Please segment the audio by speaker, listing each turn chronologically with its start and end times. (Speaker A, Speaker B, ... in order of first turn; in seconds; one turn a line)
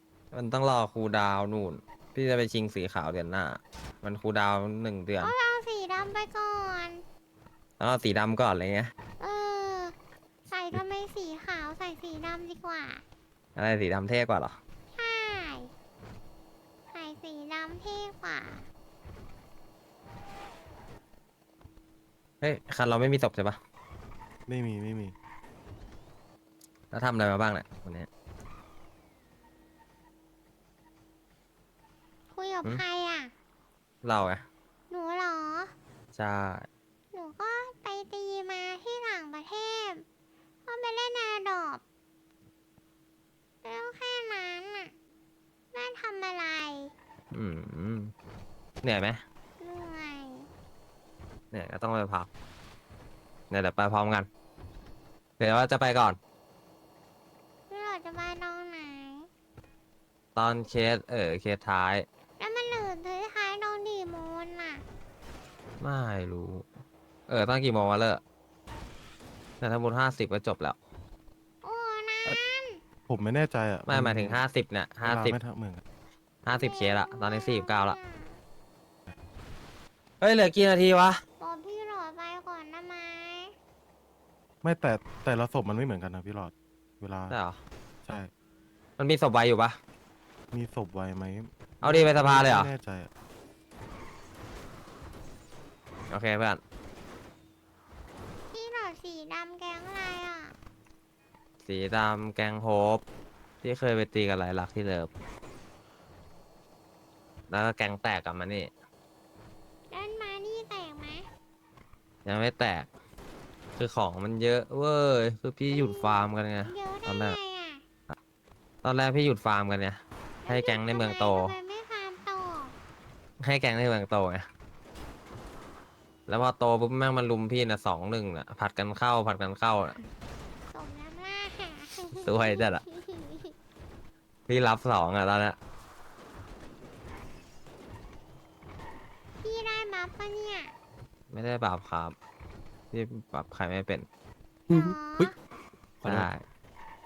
Speaker A: 0.3-5.3
Speaker B: 5.2-7.0
Speaker A: 7.8-8.9
Speaker B: 9.2-9.9
Speaker B: 10.5-13.0
Speaker A: 13.6-14.6
Speaker B: 14.9-15.7
Speaker B: 16.9-18.6
Speaker A: 22.4-23.6
Speaker C: 24.5-25.1
Speaker A: 26.9-28.1
Speaker B: 32.3-33.3
Speaker A: 34.0-34.4
Speaker B: 34.9-35.7
Speaker A: 36.1-36.6
Speaker B: 37.1-40.0
Speaker B: 40.6-41.8
Speaker B: 43.6-44.9
Speaker B: 45.7-46.9
Speaker A: 47.3-48.1
Speaker A: 48.8-49.2
Speaker B: 49.6-50.5
Speaker A: 51.5-52.3
Speaker A: 53.5-54.3
Speaker A: 55.4-56.2
Speaker B: 57.7-59.3
Speaker A: 60.3-62.0
Speaker B: 62.4-64.8
Speaker A: 65.8-66.7
Speaker A: 67.3-68.2
Speaker A: 69.6-70.8
Speaker B: 71.6-72.8
Speaker C: 73.1-74.4
Speaker A: 73.9-75.3
Speaker C: 75.0-75.8
Speaker A: 76.4-78.0
Speaker B: 76.5-78.4
Speaker A: 80.2-81.2
Speaker B: 81.4-83.5
Speaker C: 84.6-87.3
Speaker A: 87.3-87.6
Speaker A: 89.0-89.8
Speaker C: 90.5-93.1
Speaker A: 91.8-92.7
Speaker A: 96.1-96.6
Speaker B: 98.5-100.5
Speaker A: 101.6-103.0
Speaker A: 103.6-105.1
Speaker A: 107.5-108.7
Speaker B: 109.9-111.3
Speaker A: 112.2-112.9
Speaker A: 113.8-117.4
Speaker B: 115.7-117.8
Speaker A: 118.8-121.5
Speaker B: 120.4-122.7
Speaker A: 123.4-124.5
Speaker A: 126.3-130.0
Speaker B: 130.7-133.5
Speaker A: 132.2-132.8
Speaker A: 134.5-135.6
Speaker B: 139.4-140.7
Speaker A: 141.3-142.1
Speaker A: 142.9-144.1
Speaker B: 144.7-145.3
Speaker A: 146.0-146.4